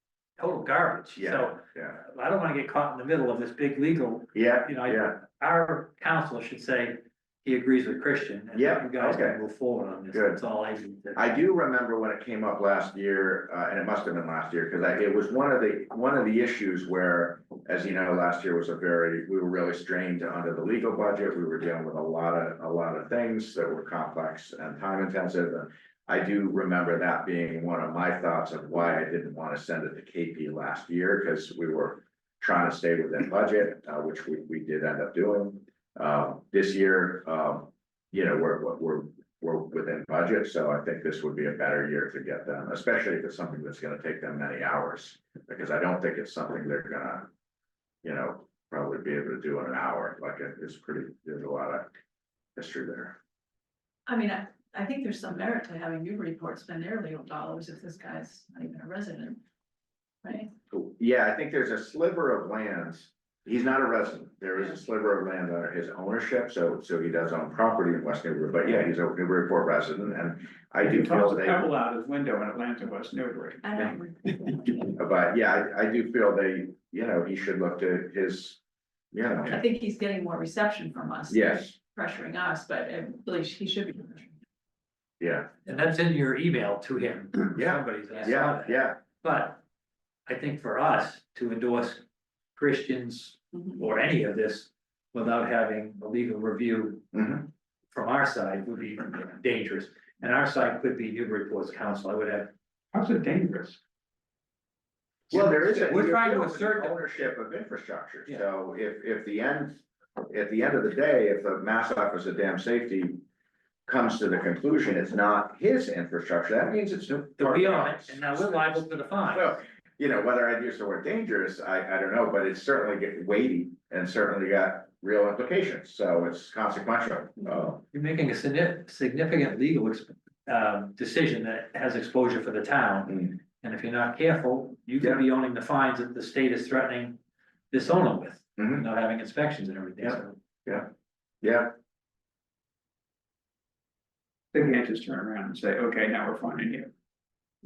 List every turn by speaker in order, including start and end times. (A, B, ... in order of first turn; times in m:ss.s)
0:00.4-0:11.4 A
0:01.2-0:02.0 B
0:04.3-0:05.2 B
0:08.5-0:09.4 B
0:10.1-0:10.4 B
0:11.2-0:47.3 B
0:48.0-0:51.9 B
0:52.6-0:53.2 B
0:54.0-0:59.4 C
1:00.2-1:00.5 C
1:00.7-1:11.7 B
1:10.8-1:14.9 D
1:13.6-1:14.9 C
1:14.9-1:18.6 B
1:19.1-1:19.6 B
1:19.4-1:24.3 C
1:21.3-1:21.7 B
1:25.2-1:25.5 B
1:25.6-1:29.6 A
1:27.5-1:29.0 B
1:30.3-1:32.0 A
1:32.6-1:37.1 A
1:37.1-1:37.4 B
1:37.9-1:42.5 A
1:42.9-1:43.8 D
1:45.3-1:53.2 B
1:45.3-1:47.0 A
1:53.9-2:07.8 B
1:57.1-1:59.6 A
2:07.9-2:17.2 A
2:17.7-2:20.4 A
2:20.0-2:20.9 B
2:21.4-2:21.7 B
2:24.5-2:26.9 D